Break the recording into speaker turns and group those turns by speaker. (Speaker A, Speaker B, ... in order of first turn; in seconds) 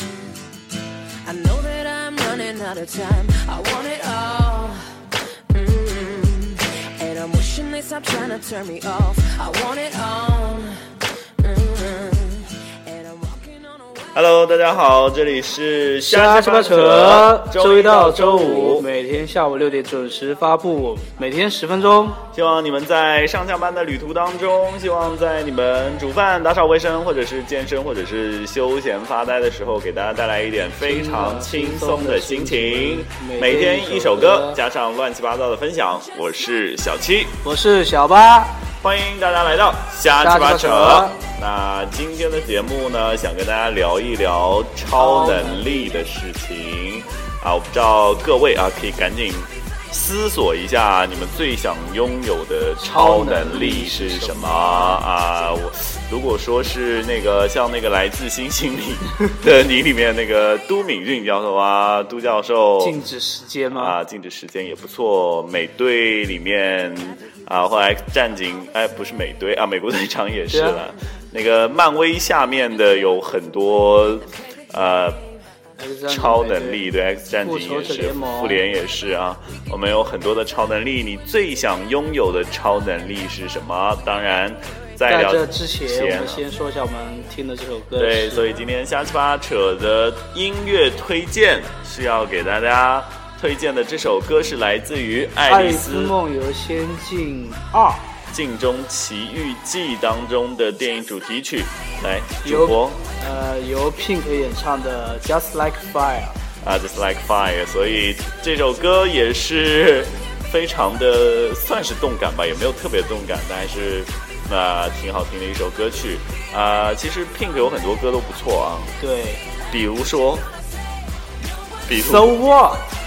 Speaker A: 1.2-14.0
Speaker B: 14.1-18.9, 22.3-37.4, 38.8-63.0, 63.7-75.2, 76.1-86.4, 88.0-96.2, 98.3-103.0, 106.6-119.0, 119.7-120.5, 121.9-122.4
Speaker C: 16.0-22.2, 30.8-34.6, 37.4-38.6, 40.2-41.2, 44.9-46.1, 52.8-55.0, 62.8-64.0, 70.5-70.8, 75.8-76.8, 77.4-78.6, 85.1-88.5, 95.5-98.1, 102.4-106.4, 119.0-119.5, 121.9-122.9